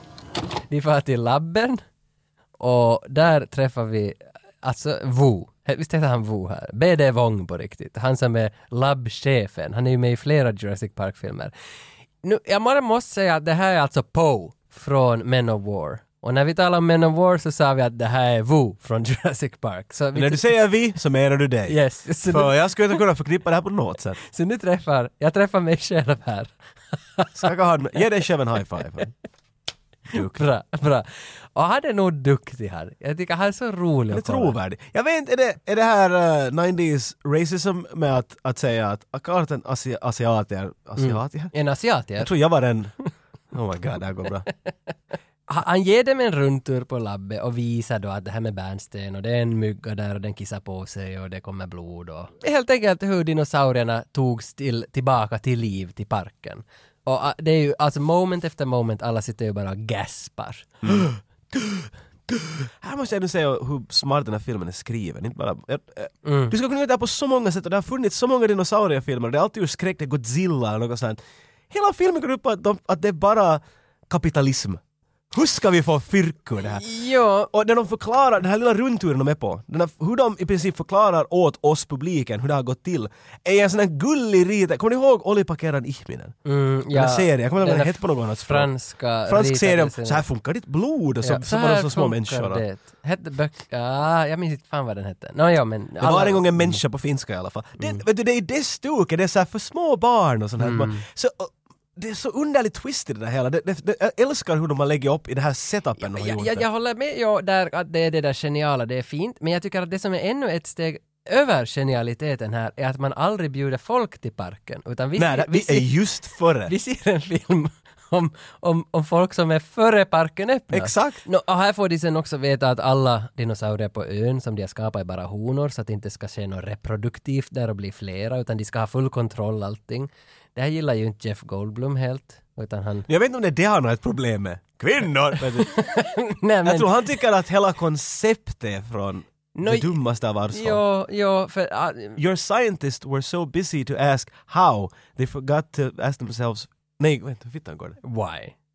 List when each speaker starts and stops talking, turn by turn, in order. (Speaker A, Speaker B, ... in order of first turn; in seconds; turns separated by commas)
Speaker A: 0.7-1.8, Speaker A: 2.6-11.5, Speaker A: 12.2-20.5, Speaker B: 20.1-24.2, Speaker A: 21.7-23.0, Speaker A: 24.2-27.5, Speaker B: 27.3-29.1, Speaker B: 30.1-30.4, Speaker A: 30.1-34.5, Speaker B: 34.1-41.5, Speaker A: 41.0-42.3, Speaker B: 42.2-42.9, Speaker B: 43.5-44.5, Speaker A: 45.5-60.9, Speaker B: 60.8-74.8, Speaker A: 66.2-66.5, Speaker B: 75.3-76.8, Speaker A: 76.6-77.5, Speaker B: 77.5-86.3, Speaker A: 86.4-90.2, Speaker B: 86.9-88.7, Speaker B: 89.2-92.6, Speaker A: 91.2-96.8, Speaker B: 96.0-106.7, Speaker A: 100.6-101.0, Speaker A: 106.0-115.9, Speaker B: 115.2-116.7, Speaker A: 116.7-133.1, Speaker B: 120.7-121.2, Speaker B: 133.1-135.8, Speaker A: 135.5-137.1, Speaker B: 136.6-140.8, Speaker A: 139.5-140.0, Speaker A: 140.5-142.2, Speaker B: 142.2-148.0, Speaker A: 148.0-148.5